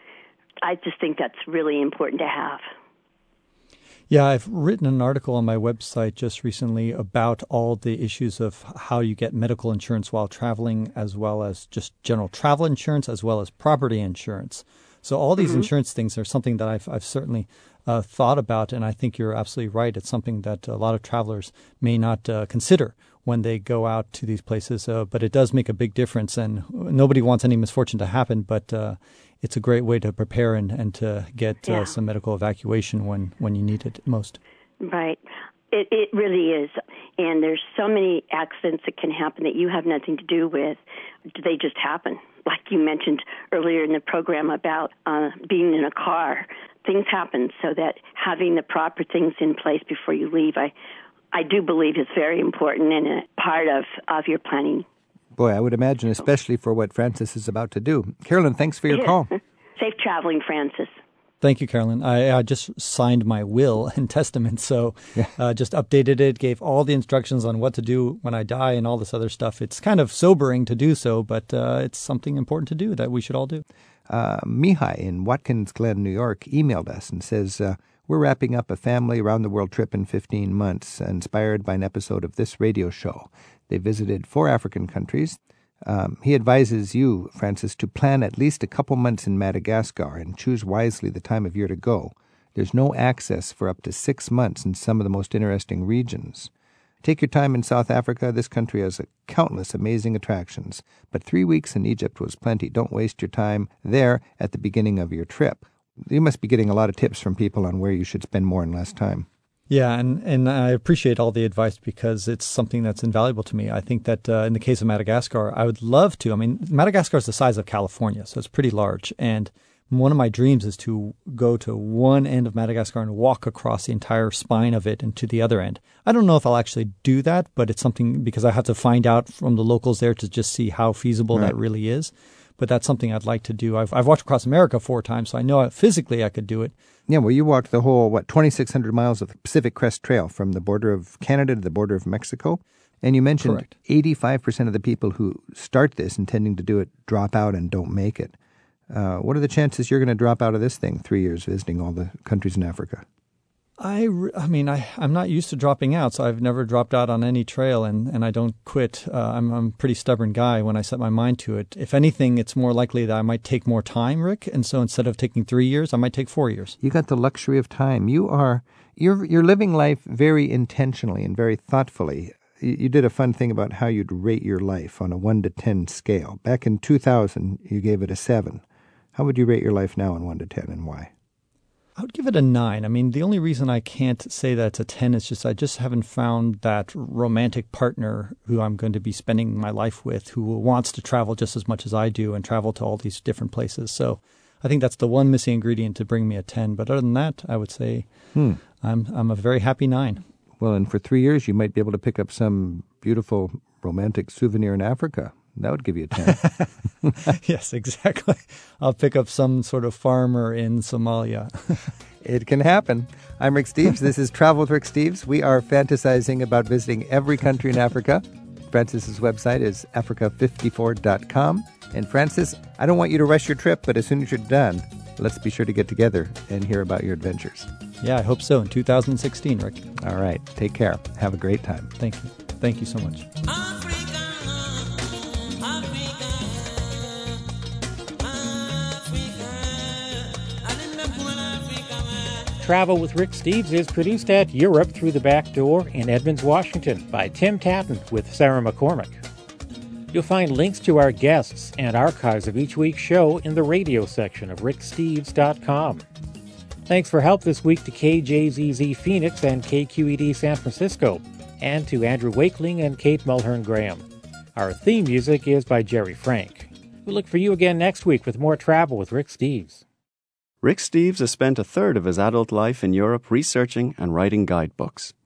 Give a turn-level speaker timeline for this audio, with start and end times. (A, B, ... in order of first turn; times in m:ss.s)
0:00.6-0:02.7 A
0:04.1-0:34.4 B
0:34.8-0:40.8 A
0:41.3-0:50.7 A
0:51.3-0:54.8 A
0:55.4-0:59.3 C
0:59.8-1:01.0 A
1:01.4-1:13.6 B
1:14.1-1:36.5 C
1:37.0-1:49.3 C
1:49.7-2:16.7 B
2:17.1-2:28.3 C
2:23.4-2:23.7 B
2:28.9-2:33.0 C
2:33.8-2:46.8 B
2:46.8-2:58.6 C
2:59.1-3:01.1 C
3:02.0-3:18.1 B
3:18.3-3:18.6 C
3:18.7-3:20.2 B
3:20.6-3:27.3 C
3:26.2-3:31.9 B
3:32.2-3:47.7 C
3:48.0-3:49.9 B
3:50.0-3:51.9 C
3:52.0-3:53.3 B
4:02.6-4:09.2 D
4:10.1-4:16.0 D
4:16.9-4:29.8 D
4:30.6-4:35.1 E